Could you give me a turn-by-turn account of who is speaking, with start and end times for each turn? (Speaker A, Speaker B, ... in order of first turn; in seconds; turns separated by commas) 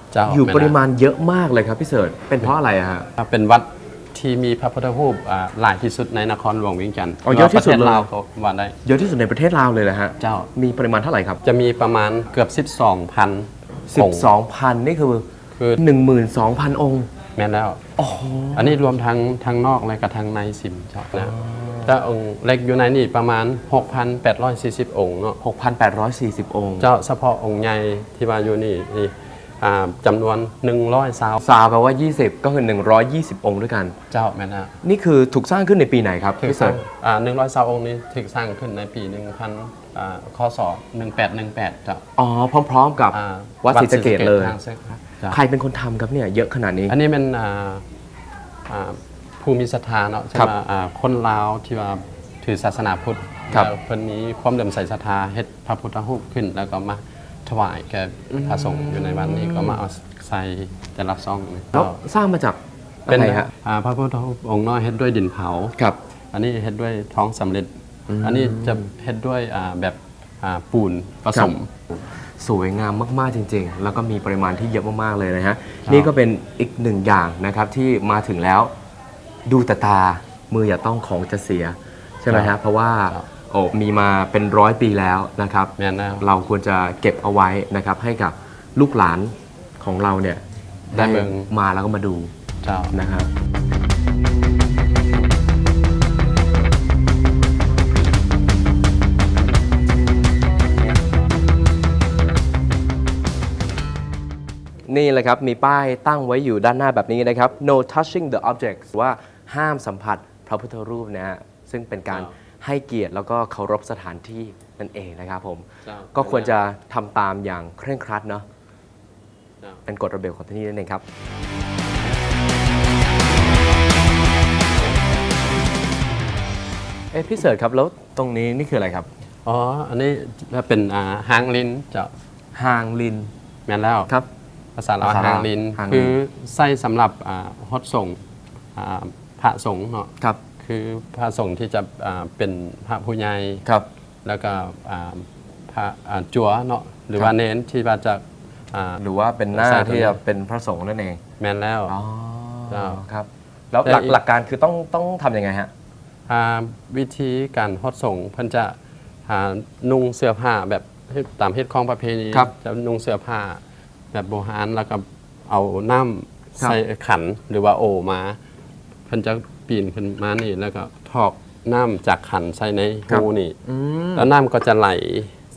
Speaker A: 0.1-0.8, Speaker B: 0.3-3.1, Speaker A: 3.2-8.8, Speaker B: 7.2-8.1, Speaker B: 8.8-11.4, Speaker A: 10.2-10.5, Speaker A: 11.4-14.3, Speaker B: 13.9-15.3, Speaker B: 15.8-17.1, Speaker A: 17.4-17.8, Speaker B: 18.0-18.8, Speaker A: 18.5-25.4, Speaker B: 21.1-22.0, Speaker B: 25.4-26.9, Speaker A: 26.8-31.4, Speaker B: 31.4-34.0, Speaker A: 34.1-34.7, Speaker B: 34.8-36.8, Speaker A: 36.4-42.0, Speaker B: 42.2-44.6, Speaker A: 43.1-45.4, Speaker B: 45.3-47.0, Speaker A: 46.9-47.8, Speaker A: 48.7-62.0, Speaker B: 58.3-59.8, Speaker B: 61.7-63.5, Speaker A: 63.1-65.8, Speaker A: 66.3-71.7, Speaker B: 68.1-68.9, Speaker B: 72.4-78.7, Speaker A: 75.8-76.1, Speaker B: 79.5-92.3, Speaker A: 82.3-82.5, Speaker A: 85.8-86.3, Speaker A: 90.9-91.5, Speaker A: 92.6-92.9, Speaker B: 92.9-93.3, Speaker B: 104.9-118.5, Speaker A: 115.8-116.6, Speaker B: 119.9-121.0, Speaker B: 127.1-129.1, Speaker A: 129.4-132.1, Speaker B: 132.5-133.3, Speaker A: 133.7-134.1, Speaker A: 134.8-138.2, Speaker B: 135.0-136.2, Speaker A: 138.8-140.1, Speaker A: 140.6-143.7, Speaker A: 144.2-149.0, Speaker B: 149.0-151.2, Speaker A: 149.5-150.2, Speaker A: 151.4-151.9, Speaker B: 151.9-155.7, Speaker A: 152.7-153.0, Speaker A: 153.8-154.2, Speaker A: 156.3-158.8, Speaker A: 159.3-163.6, Speaker A: 164.1-168.4, Speaker A: 169.1-173.6, Speaker B: 173.1-174.3, Speaker A: 174.2-175.3